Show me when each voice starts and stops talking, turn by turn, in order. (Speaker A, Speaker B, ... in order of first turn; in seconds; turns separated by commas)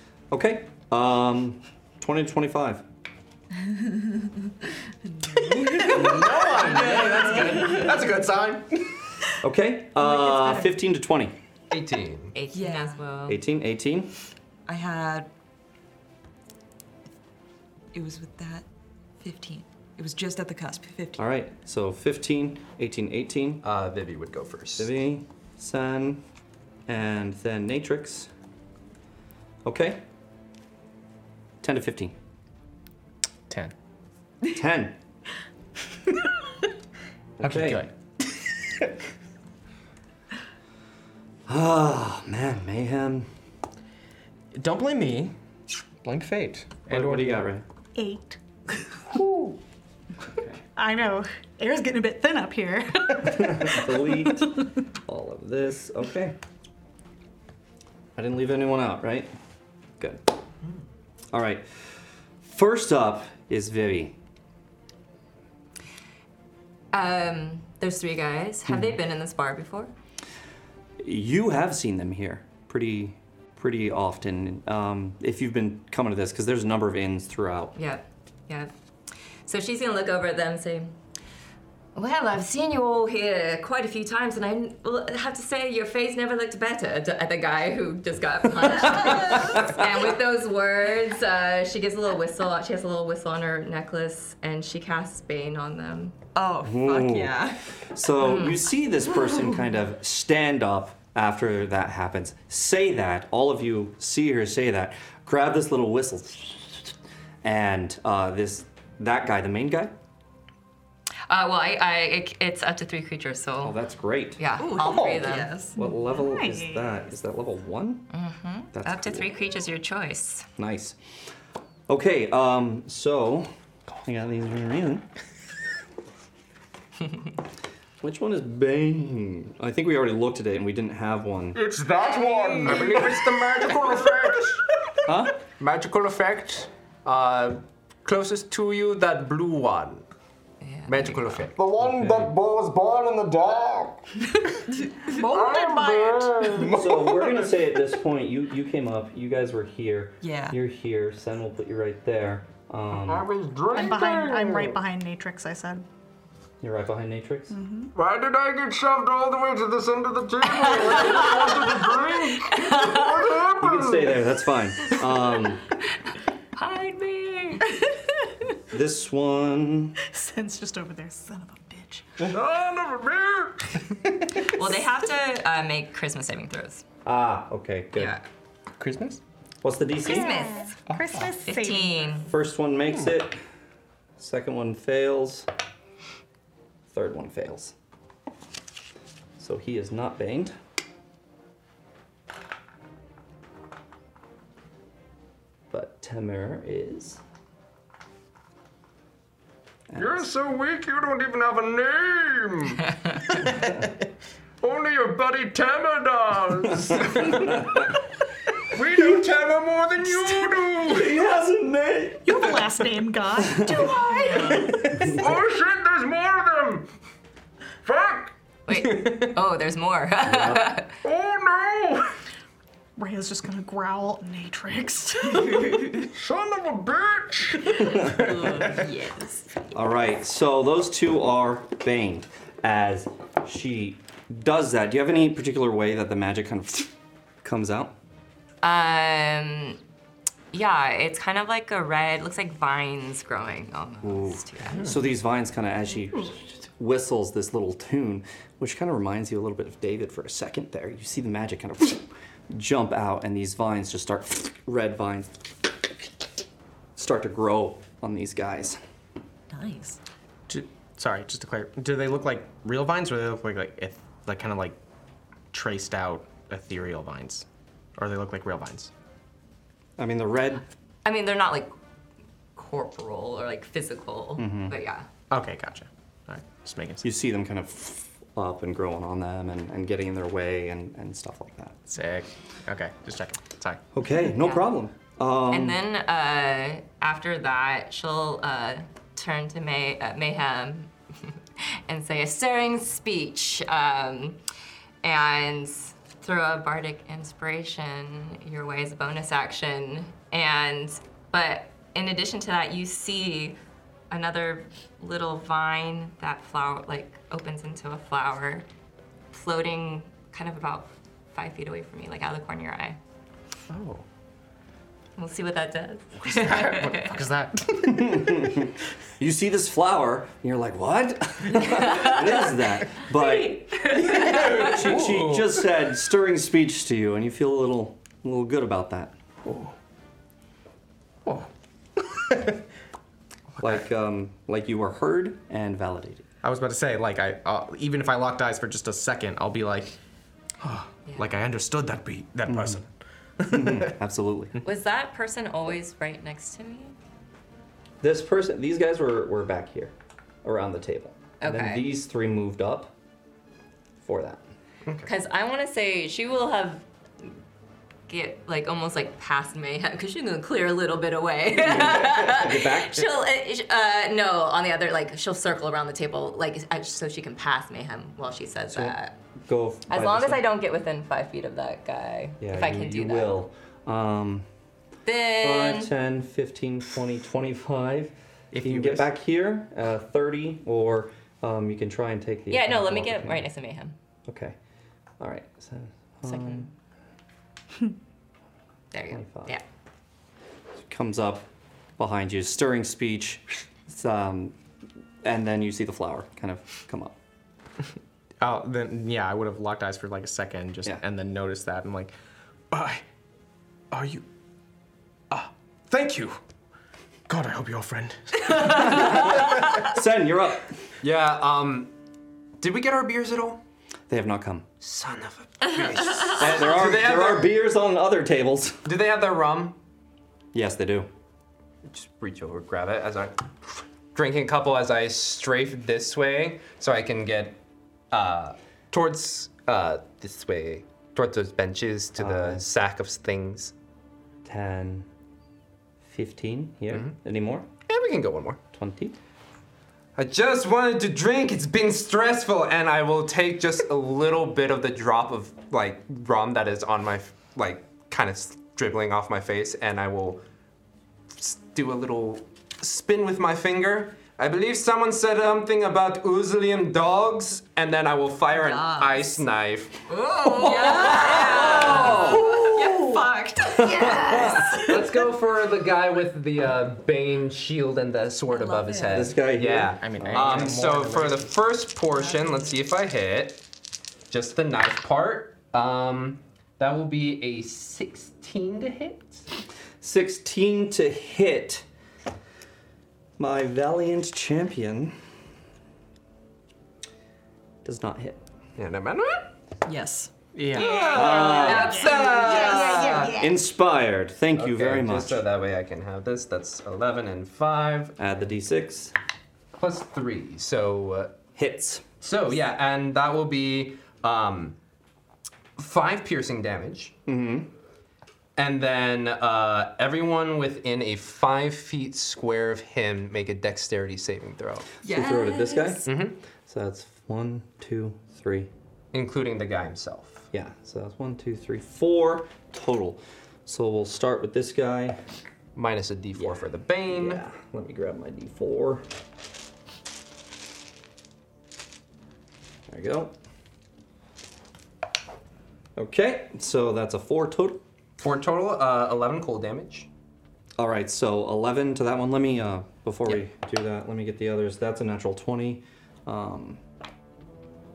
Speaker A: 0.3-2.8, Speaker B: 3.6-4.5, Speaker B: 5.1-7.9, Speaker C: 5.7-8.9, Speaker A: 9.4-11.4, Speaker D: 10.0-10.8, Speaker E: 11.7-12.3, Speaker F: 12.3-13.4, Speaker B: 12.5-13.0, Speaker A: 13.3-14.1, Speaker B: 14.7-15.3, Speaker B: 17.9-18.6, Speaker B: 19.2-21.2, Speaker A: 21.2-23.6, Speaker E: 23.6-24.9, Speaker A: 24.8-26.2, Speaker A: 26.9-28.3, Speaker A: 29.6-30.0, Speaker A: 31.6-32.1, Speaker C: 33.5-33.7, Speaker A: 34.5-35.0, Speaker A: 37.4-37.9, Speaker C: 37.4-37.9, Speaker A: 41.5-43.3, Speaker C: 44.5-45.4, Speaker C: 46.0-47.5, Speaker A: 46.9-47.6, Speaker D: 48.0-49.6, Speaker A: 50.3-50.6, Speaker D: 50.8-54.7, Speaker A: 53.2-56.4, Speaker A: 58.2-59.3, Speaker A: 60.0-60.2, Speaker A: 61.3-64.2, Speaker F: 66.9-69.9, Speaker A: 68.7-69.0, Speaker A: 71.0-77.8, Speaker F: 77.8-78.7, Speaker F: 79.5-80.9, Speaker F: 82.0-96.2, Speaker B: 96.3-97.7, Speaker A: 96.6-106.9, Speaker F: 98.2-98.7, Speaker A: 107.4-110.0, Speaker F: 111.3-113.8, Speaker A: 113.6-118.1, Speaker F: 114.4-115.5, Speaker B: 114.6-115.8, Speaker D: 115.9-117.1, Speaker F: 118.1-120.5, Speaker A: 118.7-119.4, Speaker A: 120.6-121.0, Speaker A: 121.9-123.5, Speaker A: 124.0-125.1, Speaker A: 128.0-131.7, Speaker G: 131.6-134.6, Speaker B: 132.1-132.8, Speaker E: 132.6-134.6, Speaker A: 135.1-135.4, Speaker E: 135.6-140.1, Speaker F: 140.6-141.5, Speaker E: 140.9-141.6, Speaker G: 141.6-144.0, Speaker A: 141.8-142.3, Speaker B: 144.7-146.6, Speaker G: 145.2-147.6, Speaker A: 146.6-153.3, Speaker B: 150.2-150.6, Speaker G: 152.9-154.8, Speaker D: 153.7-155.8, Speaker A: 156.6-157.6, Speaker D: 157.5-157.9, Speaker G: 157.9-164.2, Speaker F: 160.6-161.9, Speaker F: 162.5-163.4, Speaker A: 163.6-165.6, Speaker F: 166.6-167.7, Speaker A: 168.7-170.0, Speaker D: 170.1-172.1, Speaker G: 172.3-173.8, Speaker F: 174.5-176.8, Speaker A: 177.0-178.2, Speaker F: 177.9-178.2, Speaker C: 178.8-179.2, Speaker A: 179.6-180.3, Speaker F: 180.1-180.7, Speaker D: 180.2-182.1, Speaker C: 180.9-181.3, Speaker F: 181.4-182.3, Speaker A: 182.2-183.4, Speaker A: 184.2-185.5, Speaker A: 186.9-187.7, Speaker A: 189.4-190.6, Speaker A: 195.7-197.2, Speaker A: 199.9-200.3, Speaker G: 199.9-202.8, Speaker G: 204.6-207.7, Speaker A: 206.7-207.9, Speaker G: 208.7-211.2, Speaker D: 210.1-210.7, Speaker A: 210.8-212.5, Speaker D: 212.2-215.2, Speaker A: 213.5-213.8, Speaker G: 214.0-216.9, Speaker A: 215.0-215.2, Speaker G: 217.8-218.3, Speaker F: 218.7-221.0, Speaker C: 218.7-219.3, Speaker A: 220.2-220.6, Speaker G: 221.0-222.1, Speaker D: 223.0-225.9, Speaker G: 226.1-227.8, Speaker A: 227.8-228.3, Speaker B: 228.1-229.5, Speaker A: 229.7-236.9, Speaker A: 237.4-238.0, Speaker F: 238.6-239.8, Speaker F: 240.5-245.0, Speaker A: 244.0-255.5, Speaker A: 257.0-258.8, Speaker B: 259.5-260.0, Speaker C: 260.5-264.8, Speaker C: 265.5-267.5, Speaker C: 268.0-268.9, Speaker A: 270.0-270.6, Speaker F: 271.1-271.7, Speaker F: 272.6-275.1, Speaker A: 274.4-274.8, Speaker C: 275.3-277.0, Speaker A: 277.0-281.8, Speaker C: 281.9-283.8, Speaker A: 283.9-285.8, Speaker F: 284.3-284.6, Speaker F: 285.5-291.3, Speaker F: 291.9-294.4, Speaker F: 295.0-303.6, Speaker F: 304.1-308.7, Speaker F: 309.3-313.0, Speaker C: 313.7-314.1, Speaker F: 315.2-317.2, Speaker C: 316.2-318.5, Speaker A: 317.8-329.1, Speaker F: 321.5-324.9, Speaker C: 324.0-325.7, Speaker C: 329.4-329.7, Speaker C: 331.3-332.6, Speaker C: 333.6-333.8, Speaker A: 333.6-336.2, Speaker C: 336.4-340.0, Speaker C: 340.6-342.9, Speaker A: 342.5-342.8, Speaker C: 343.4-343.9, Speaker A: 343.4-344.6, Speaker F: 344.6-347.0, Speaker A: 348.0-352.9, Speaker F: 351.4-351.9, Speaker A: 354.0-354.4, Speaker F: 355.0-357.3, Speaker F: 358.1-369.2, Speaker A: 361.6-363.1, Speaker A: 368.7-370.5, Speaker F: 369.9-373.4, Speaker A: 372.4-374.5, Speaker F: 375.1-375.9, Speaker A: 375.4-383.5, Speaker C: 378.5-379.1, Speaker F: 382.5-384.0, Speaker A: 384.3-384.6, Speaker A: 385.2-386.7, Speaker F: 386.2-386.7, Speaker F: 388.9-389.6, Speaker A: 389.1-389.6, Speaker A: 390.8-391.5, Speaker A: 392.0-394.6, Speaker A: 395.2-397.2, Speaker C: 398.4-402.1, Speaker C: 402.7-403.0, Speaker C: 403.9-404.3, Speaker C: 405.3-406.4, Speaker C: 407.3-409.4, Speaker A: 408.6-410.8, Speaker E: 411.0-411.9, Speaker E: 412.6-413.6, Speaker A: 414.1-414.7, Speaker E: 414.8-417.5, Speaker A: 416.3-418.9, Speaker E: 418.9-419.8, Speaker A: 420.5-421.1, Speaker E: 421.9-427.6, Speaker E: 428.1-433.7, Speaker A: 432.2-432.6, Speaker A: 434.4-435.1, Speaker A: 436.0-437.7, Speaker E: 437.9-438.6, Speaker A: 438.7-439.2, Speaker E: 440.2-450.4, Speaker E: 451.3-460.0, Speaker B: 458.5-459.4, Speaker B: 460.1-465.0, Speaker F: 460.3-463.1, Speaker A: 460.6-462.6, Speaker E: 461.4-462.2, Speaker A: 463.7-464.7, Speaker D: 464.0-464.6, Speaker E: 464.6-473.6, Speaker B: 468.5-469.3, Speaker A: 469.1-470.9, Speaker C: 470.0-471.6, Speaker B: 472.1-472.8, Speaker E: 474.3-479.5, Speaker A: 480.0-481.9, Speaker A: 483.4-485.2, Speaker A: 487.9-488.4, Speaker E: 488.8-489.5, Speaker B: 489.9-490.3, Speaker C: 490.6-491.0, Speaker E: 490.7-493.4, Speaker D: 490.7-493.6, Speaker A: 491.1-492.0, Speaker B: 491.7-492.8, Speaker A: 493.3-495.4, Speaker E: 494.6-498.2, Speaker A: 498.2-499.1, Speaker E: 499.8-501.4, Speaker A: 501.6-502.0, Speaker E: 502.2-504.8, Speaker E: 505.8-507.1, Speaker A: 507.3-507.7, Speaker E: 508.6-514.9, Speaker B: 515.0-516.1, Speaker A: 515.0-518.7, Speaker E: 516.0-516.4, Speaker E: 519.1-520.5, Speaker A: 520.5-525.2, Speaker E: 525.8-527.4, Speaker A: 526.4-529.0, Speaker A: 532.9-533.4, Speaker A: 536.0-537.8, Speaker E: 538.2-540.1, Speaker A: 540.8-546.8